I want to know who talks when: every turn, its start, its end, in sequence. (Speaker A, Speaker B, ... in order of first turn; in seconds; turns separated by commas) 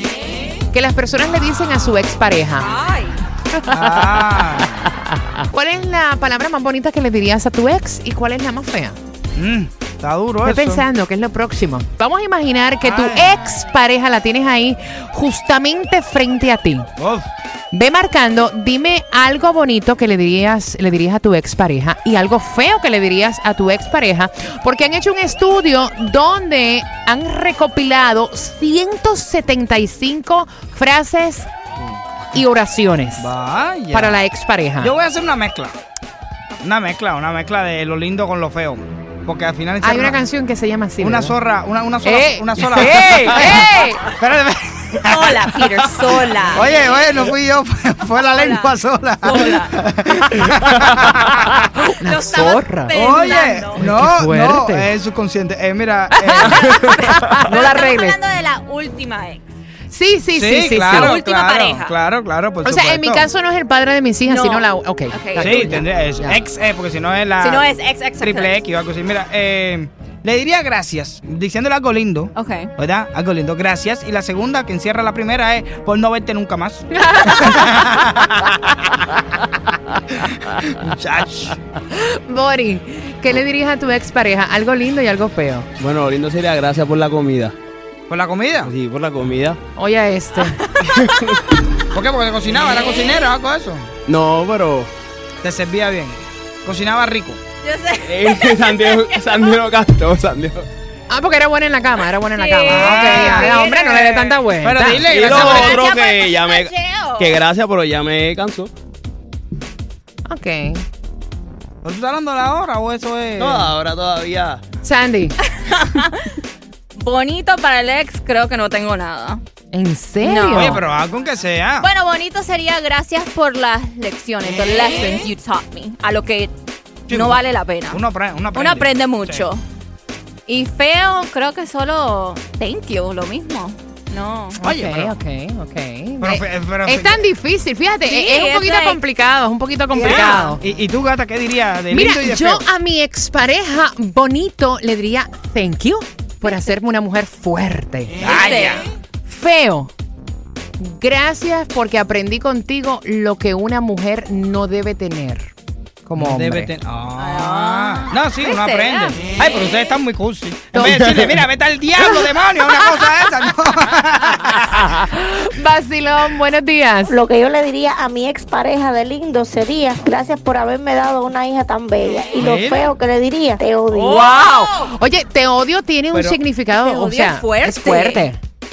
Speaker A: 0.7-2.7, Speaker B: 2.6-3.2, Speaker A: 3.5-8.9, Speaker C: 3.7-4.9, Speaker C: 9.3-10.8, Speaker A: 10.4-16.9, Speaker C: 12.8-13.3, Speaker C: 17.0-17.3, Speaker A: 17.7-31.5, Speaker A: 32.3-33.3, Speaker C: 33.2-34.1, Speaker A: 33.9-34.9, Speaker C: 34.8-35.8, Speaker C: 36.6-40.2, Speaker A: 39.8-41.3, Speaker C: 41.0-51.5, Speaker A: 42.0-44.0, Speaker B: 43.4-43.9, Speaker B: 45.0-47.3, Speaker B: 48.3-49.7, Speaker A: 51.5-52.9, Speaker B: 51.8-53.9, Speaker C: 52.9-56.7, Speaker A: 53.8-54.9, Speaker A: 56.1-58.2, Speaker B: 56.5-59.4, Speaker A: 59.9-61.1, Speaker C: 60.3-63.3, Speaker B: 60.9-61.9, Speaker A: 62.6-66.4, Speaker B: 64.2-65.6, Speaker C: 65.4-67.7, Speaker B: 67.4-68.5, Speaker C: 68.2-78.8, Speaker B: 72.3-72.7, Speaker B: 77.1-77.5, Speaker C: 80.2-81.6, Speaker A: 81.9-85.7, Speaker D: 85.8-87.5, Speaker C: 88.1-88.7, Speaker D: 88.6-89.6, Speaker A: 89.8-90.6, Speaker B: 90.4-91.1, Speaker D: 90.8-91.4, Speaker C: 91.9-93.9, Speaker D: 94.1-94.9, Speaker C: 95.4-97.4, Speaker B: 97.6-99.6, Speaker D: 98.0-100.7, Speaker A: 101.1-105.0, Speaker B: 102.3-104.0, Speaker C: 102.7-105.8, Speaker D: 105.0-108.7, Speaker B: 105.2-107.4, Speaker A: 110.3-110.8, Speaker C: 111.8-113.7, Speaker D: 113.4-114.6, Speaker A: 114.8-115.4, Speaker B: 115.4-116.3, Speaker B: 116.9-119.4, Speaker A: 119.7-120.8, Speaker B: 120.2-120.8, Speaker C: 120.5-121.9, Speaker B: 121.8-126.5, Speaker B: 127.1-128.0, Speaker C: 127.1-129.4, Speaker B: 128.5-129.6, Speaker B: 130.5-134.6, Speaker A: 134.6-140.6, Speaker C: 134.6-135.2, Speaker C: 136.2-137.2, Speaker B: 138.1-139.0, Speaker C: 139.9-142.6, Speaker B: 140.0-140.6, Speaker A: 141.9-148.2, Speaker C: 148.2-148.8, Speaker B: 148.2-148.9, Speaker A: 149.2-149.9, Speaker A: 150.8-155.5, Speaker A: 156.1-156.7, Speaker C: 156.2-164.9, Speaker B: 157.2-159.2, Speaker A: 160.7-161.4, Speaker A: 164.8-167.2, Speaker E: 167.1-174.3, Speaker C: 172.4-172.9, Speaker A: 173.9-178.4, Speaker B: 173.9-174.9, Speaker C: 176.1-176.4, Speaker B: 176.8-178.3